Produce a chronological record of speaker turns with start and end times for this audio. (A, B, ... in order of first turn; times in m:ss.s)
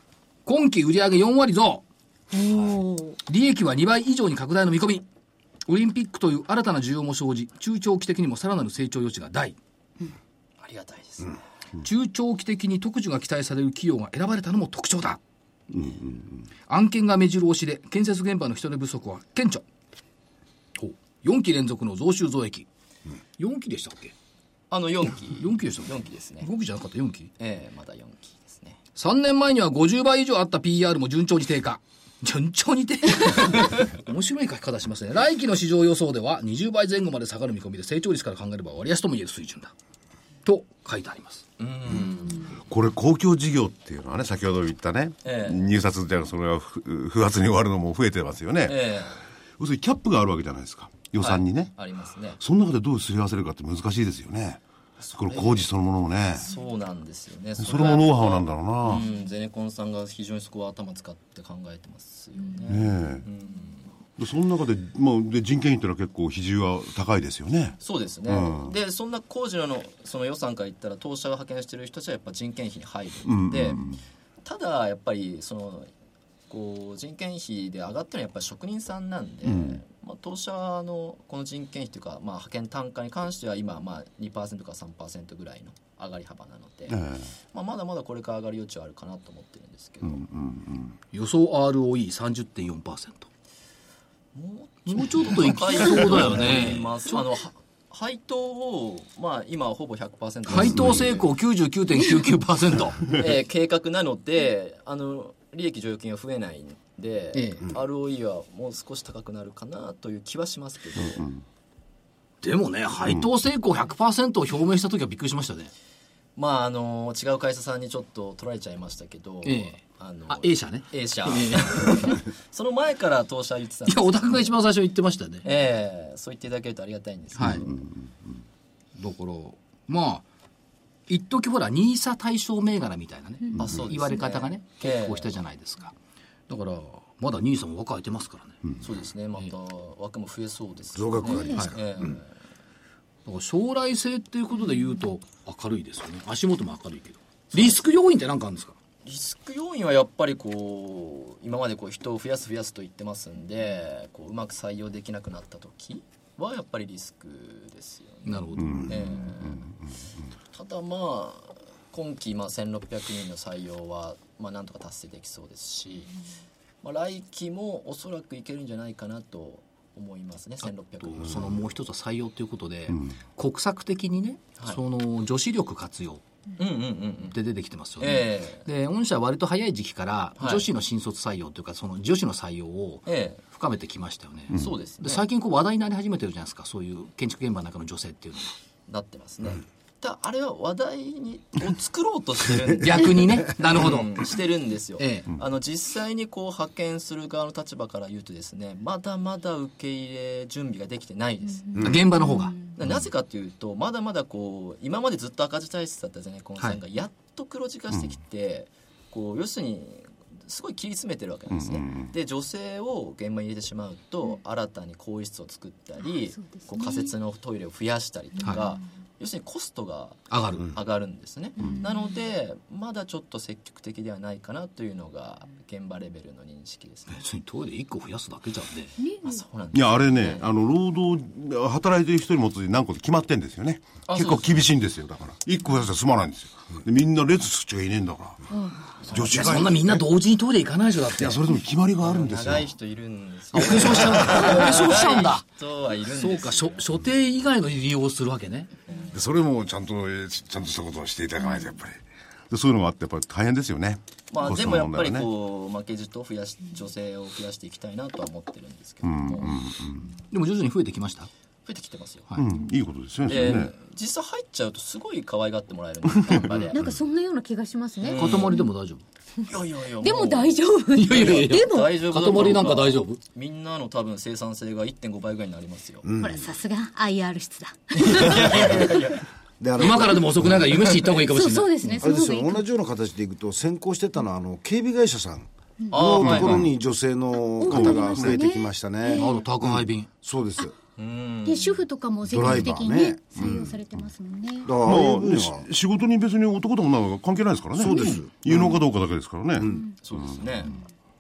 0:00.4-0:01.8 A
0:02.3-0:03.2 B
0:03.2-0:05.0 A
0:05.6-0:09.6 A
0:10.6-0:11.4 C
0:11.8-0:15.2 A
0:15.7-0:16.4 D
0:16.7-0:19.6 A
0:20.8-0:22.7 A
0:23.4-0:24.1 A
0:24.7-0:26.5 C
0:25.4-0:27.3 A
0:27.4-0:28.8 C
0:29.0-0:39.7 A
0:40.4-0:41.4 A
0:41.6-0:42.5 C
0:42.6-0:48.9 D
0:45.2-0:45.7 C
0:48.7-0:49.2 C
0:49.6-0:51.7 D
0:51.2-0:52.4 C
0:52.4-0:54.6 D
0:55.0-0:55.7 C
0:55.2-0:56.4 D
0:56.4-1:03.9 C
0:57.6-0:59.1 D
1:02.6-1:03.2 D
1:04.2-1:08.7 D
1:07.8-1:13.8 C
1:13.2-1:14.0 D
1:14.4-1:15.9 C
1:16.5-1:27.0 C
1:19.4-1:19.8 D
1:26.9-1:27.3 D
1:27.5-1:30.2 C
1:30.0-1:31.0 D
1:31.1-1:33.3 A
1:34.3-1:41.2 C
1:34.8-1:37.0 A
1:40.5-1:43.1 A
1:40.8-1:41.0 D
1:43.1-1:51.3 C
1:47.3-1:47.6 A
1:51.2-1:51.4 D
1:52.4-1:55.7 A
1:56.4-2:04.5 C
1:59.4-2:02.2 A
2:03.8-2:05.5 A
2:05.4-2:07.8 C
2:07.3-2:07.7 A
2:07.6-2:08.3 D
2:09.0-2:10.2 A
2:11.1-2:16.0 A
2:13.6-2:15.3 C
2:16.5-2:18.6 A
2:18.8-2:22.3 C
2:20.9-2:22.2 E
2:21.3-2:21.6 B
2:23.2-2:28.8 A
2:29.0-2:39.7 C
2:38.2-2:39.0 A
2:38.6-2:39.9 D
2:40.5-2:46.1 C
2:46.8-2:51.6 C
2:51.0-2:56.2 A
2:56.6-2:57.4 C
2:57.3-3:08.5 A
2:58.0-2:58.6 C
3:00.4-3:00.6 C
3:03.1-3:03.4 C
3:04.5-3:05.2 C
3:08.9-3:22.0 C
3:12.8-3:14.3 A
3:15.0-3:15.3 A
3:21.7-3:22.0 E
3:21.8-3:22.5 A
3:22.3-3:22.7 B
3:22.7-3:47.2 C
3:31.5-3:32.1 D
3:36.4-3:37.1 B
3:40.3-3:40.7 A
3:41.6-3:41.9 B
3:47.1-3:48.9 A
3:49.0-3:49.4 B
3:49.2-3:50.4 C
3:49.7-3:58.4 D
3:54.1-3:54.6 C
3:58.6-3:58.9 B
3:59.0-4:00.0 D
3:59.1-4:01.4 A
4:01.2-4:02.7 D
4:02.0-4:06.8 C
4:03.5-4:05.4 A
4:04.1-4:04.5 D
4:06.0-4:08.7 A
4:08.9-4:09.2 C
4:09.1-4:15.3 D
4:14.3-4:19.6 C
4:19.0-4:20.1 D
4:20.3-4:21.3 A
4:21.6-4:22.3 C
4:22.4-4:23.7 D
4:23.2-4:26.8 C
4:26.3-4:26.6 D
4:26.7-4:28.7 B
4:28.0-4:28.7 C
4:28.1-4:29.0 A
4:29.4-4:36.0 C
4:30.0-4:32.0 B
4:30.9-4:33.2 A
4:36.0-4:36.4 E
4:36.2-4:38.7 B
4:38.0-4:39.2 C
4:38.3-4:38.9 E
4:39.6-4:40.6 E
4:39.8-4:42.0 A
4:41.1-4:42.6 B
4:42.0-4:49.5 E
4:45.9-4:46.7 C
4:46.2-4:46.7 D
4:47.4-4:49.4 B
4:47.6-4:48.4 D
4:49.1-4:50.1 A
4:50.2-4:50.7 E
4:51.0-4:51.8 C
4:51.4-4:54.8 B
4:52.2-4:53.6 E
4:53.3-4:53.8 D
4:54.6-4:55.6 E
4:54.8-4:59.8 D
4:57.8-4:58.8 E
4:59.6-4:59.8 E
5:00.0-5:00.8 C